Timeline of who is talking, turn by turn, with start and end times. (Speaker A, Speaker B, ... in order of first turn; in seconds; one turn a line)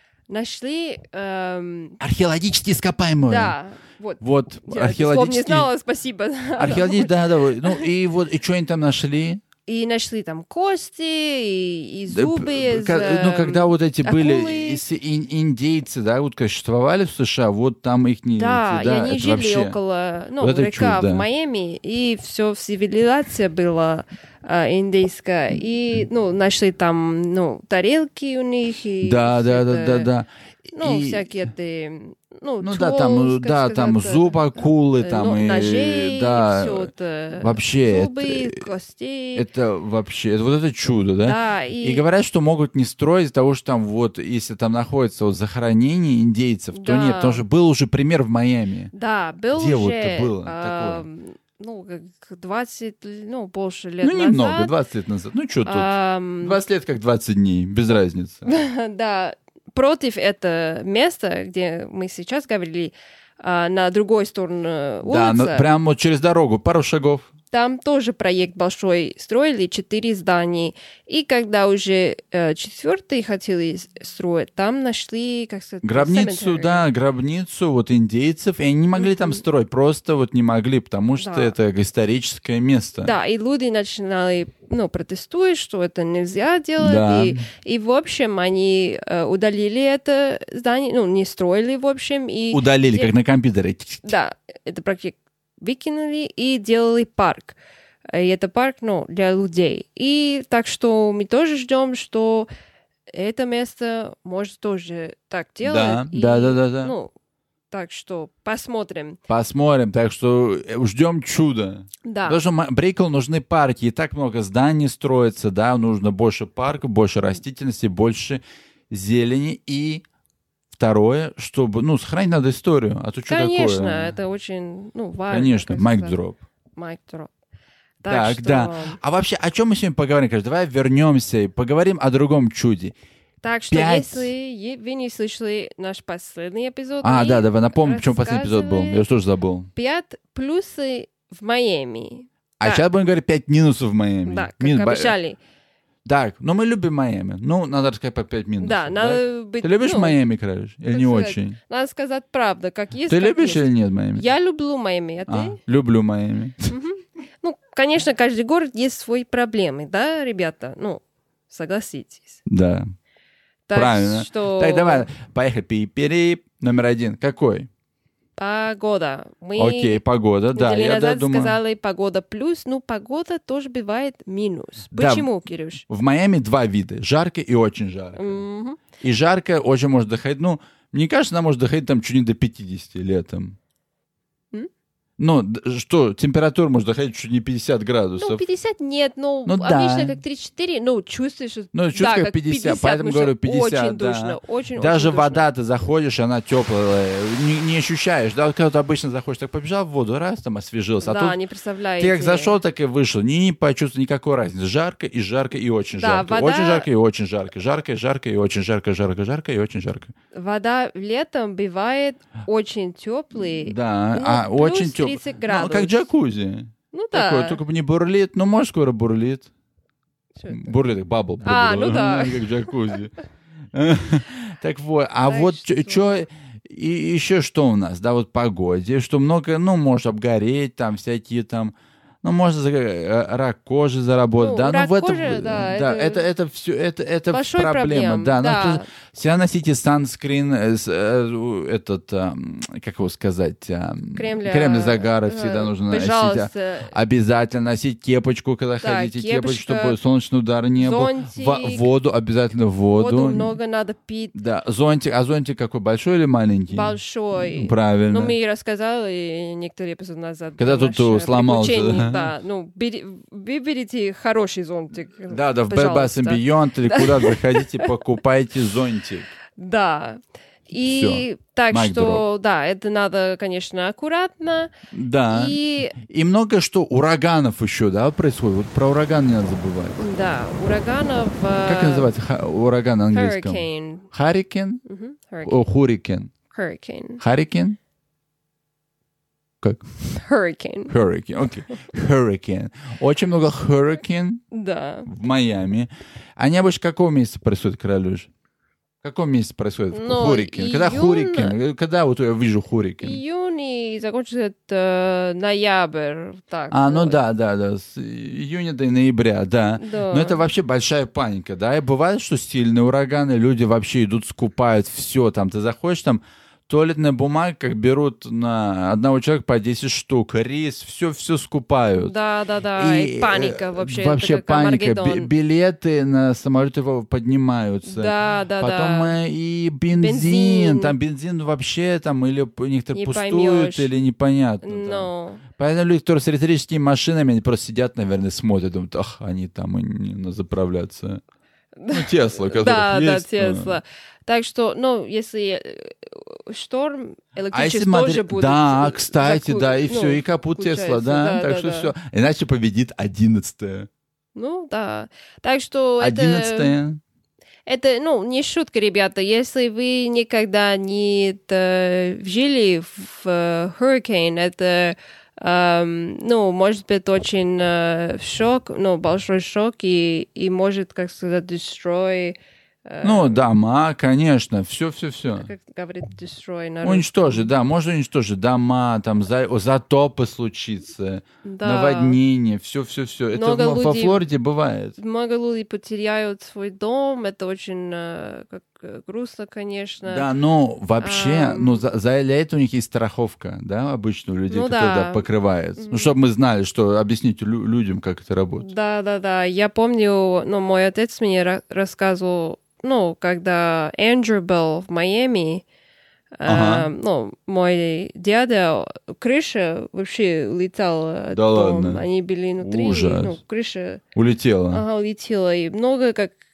Speaker A: 0.3-2.0
Speaker B: 2.0-3.5
Speaker A: 3.3-7.9
Speaker B: 4.2-5.7
Speaker B: 6.6-9.4
Speaker A: 9.7-14.8
Speaker B: 12.1-19.8
Speaker A: 18.4-30.1
Speaker B: 20.4-21.2
Speaker B: 29.0-31.3
Speaker A: 30.7-34.4
Speaker B: 32.6-38.6
Speaker A: 35.0-39.5
Speaker B: 39.3-48.9
Speaker A: 41.2-42.0
Speaker A: 46.7-47.4
Speaker A: 48.9-54.7
Speaker B: 49.5-51.0
Speaker B: 54.0-55.9
Speaker A: 55.6-56.6
Speaker B: 56.4-58.4
Speaker A: 58.5-65.7
Speaker B: 65.0-67.3
Speaker A: 67.5-76.8
Speaker B: 75.8-83.1
Speaker A: 79.0-79.4
Speaker A: 81.2-81.5
Speaker A: 83.0-93.1
Speaker B: 86.8-87.4
Speaker B: 92.5-94.1
Speaker A: 94.0-97.6
Speaker A: 98.1-102.5
Speaker A: 103.1-107.1
Speaker B: 105.6-106.9
Speaker A: 107.7-109.2
Speaker B: 109.3-120.0
Speaker A: 112.0-112.4
Speaker B: 120.7-124.1
Speaker A: 123.3-126.2
Speaker B: 125.3-126.4
Speaker A: 126.8-127.3
Speaker A: 128.0-129.0
Speaker B: 128.0-132.9
Speaker A: 133.4-139.0
Speaker B: 133.7-134.3
Speaker B: 137.0-139.7
Speaker A: 139.7-142.8
Speaker B: 142.6-145.1
Speaker A: 144.2-145.4
Speaker B: 146.0-151.6
Speaker A: 148.6-150.2
Speaker A: 150.9-155.6
Speaker B: 153.1-154.2
Speaker B: 155.3-156.7
Speaker A: 156.7-162.4
Speaker B: 162.5-162.8
Speaker A: 163.7-165.1
Speaker B: 163.7-167.7
Speaker A: 168.4-170.0
Speaker B: 169.6-171.6
Speaker A: 170.5-175.8
Speaker B: 174.9-175.3
Speaker B: 175.9-178.4
Speaker A: 178.2-178.8
Speaker B: 179.0-183.6
Speaker B: 185.2-188.4
Speaker A: 188.2-195.4
Speaker B: 189.4-190.2
Speaker B: 191.7-201.4
Speaker A: 201.0-202.6
Speaker B: 202.0-210.1
Speaker A: 206.0-206.9
Speaker A: 210.3-216.0
Speaker B: 213.4-219.5
Speaker A: 216.9-217.6
Speaker A: 220.4-220.7
Speaker B: 220.5-223.1
Speaker A: 221.4-222.7
Speaker B: 223.7-253.5
Speaker A: 225.2-226.2
Speaker A: 234.4-236.2
Speaker A: 237.3-238.9
Speaker A: 244.1-246.9
Speaker A: 248.8-250.0
Speaker A: 250.8-251.8
Speaker A: 252.9-254.4
Speaker B: 254.3-258.3
Speaker A: 256.7-267.9
Speaker B: 260.6-262.3
Speaker B: 265.3-269.3
Speaker A: 269.6-274.7
Speaker B: 270.8-272.2
Speaker B: 274.9-280.0
Speaker A: 275.3-275.9
Speaker A: 280.0-282.1
Speaker B: 281.6-284.8
Speaker A: 283.1-284.1
Speaker A: 284.8-285.6
Speaker B: 285.4-286.3
Speaker A: 286.5-287.2
Speaker B: 287.2-287.8
Speaker A: 290.0-290.9
Speaker B: 290.9-294.4
Speaker A: 294.5-295.1
Speaker B: 295.1-298.3
Speaker B: 299.0-303.2
Speaker A: 299.9-301.6
Speaker A: 303.0-307.2
Speaker B: 306.7-322.1
Speaker A: 309.8-310.4
Speaker A: 322.0-325.3
Speaker B: 322.8-341.2
Speaker A: 327.8-329.2
Speaker A: 329.9-330.9
Speaker A: 332.9-333.9
Speaker A: 334.6-335.4
Speaker A: 341.8-351.9
Speaker B: 341.9-343.8
Speaker B: 347.5-353.9
Speaker A: 354.3-356.7
Speaker B: 356.0-357.0
Speaker A: 357.7-373.5
Speaker B: 373.0-375.5
Speaker A: 375.4-377.5
Speaker B: 376.8-385.0
Speaker A: 381.4-382.2
Speaker A: 383.3-384.2
Speaker A: 385.0-390.3
Speaker B: 390.0-398.7
Speaker A: 391.0-391.8
Speaker A: 394.5-395.2
Speaker A: 395.8-396.1
Speaker A: 398.6-405.6
Speaker A: 406.4-414.0
Speaker B: 406.4-406.9
Speaker B: 411.3-412.0
Speaker B: 412.6-413.4
Speaker B: 414.1-414.8
Speaker A: 414.7-416.3